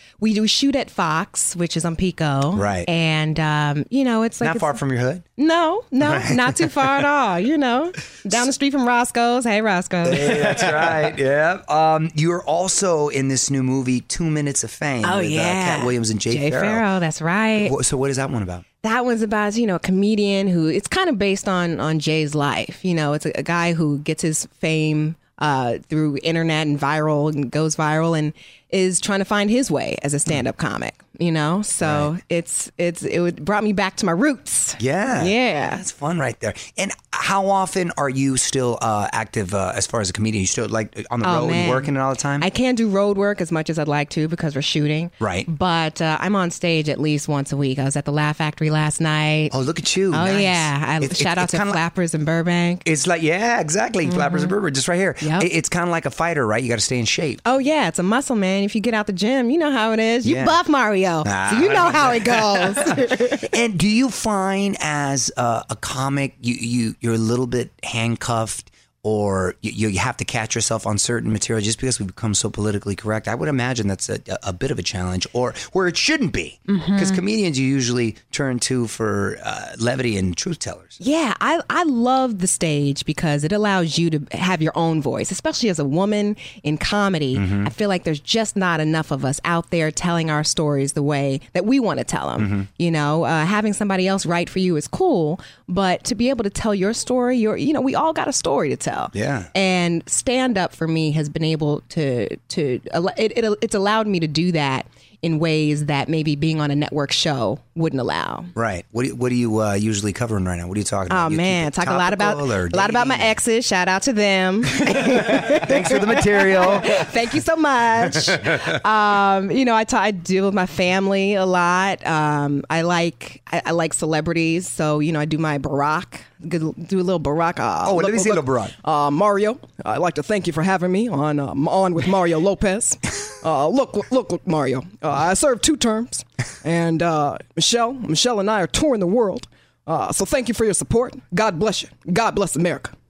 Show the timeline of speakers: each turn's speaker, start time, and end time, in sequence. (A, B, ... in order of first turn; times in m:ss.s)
0:00.2-0:04.8 A
0:02.5-0:02.9 B
0:04.4-0:05.2 B
0:05.4-0:11.0 A
0:06.0-0:06.9 B
0:10.0-0:16.9 B
0:15.0-0:17.8 A
0:17.6-0:18.6 B
0:18.8-0:35.8 A
0:31.8-0:32.1 B
0:34.8-0:42.5 B
0:41.2-0:49.6 A
0:45.2-0:45.5 B
0:49.5-0:51.8 B
0:50.1-0:52.8 A
0:52.8-0:57.4 B
0:54.0-0:54.6 A
0:55.2-0:55.5 A
0:57.4-1:03.4 A
1:00.2-1:00.6 B
1:01.2-1:21.0 B
1:16.7-1:17.2 A
1:21.0-1:48.5 A
1:27.3-1:27.7 B
1:32.4-1:32.7 B
1:39.2-1:39.5 B
1:48.6-1:53.4 B
1:51.1-2:22.9 A
1:55.1-1:57.0 B
2:07.8-2:08.8 B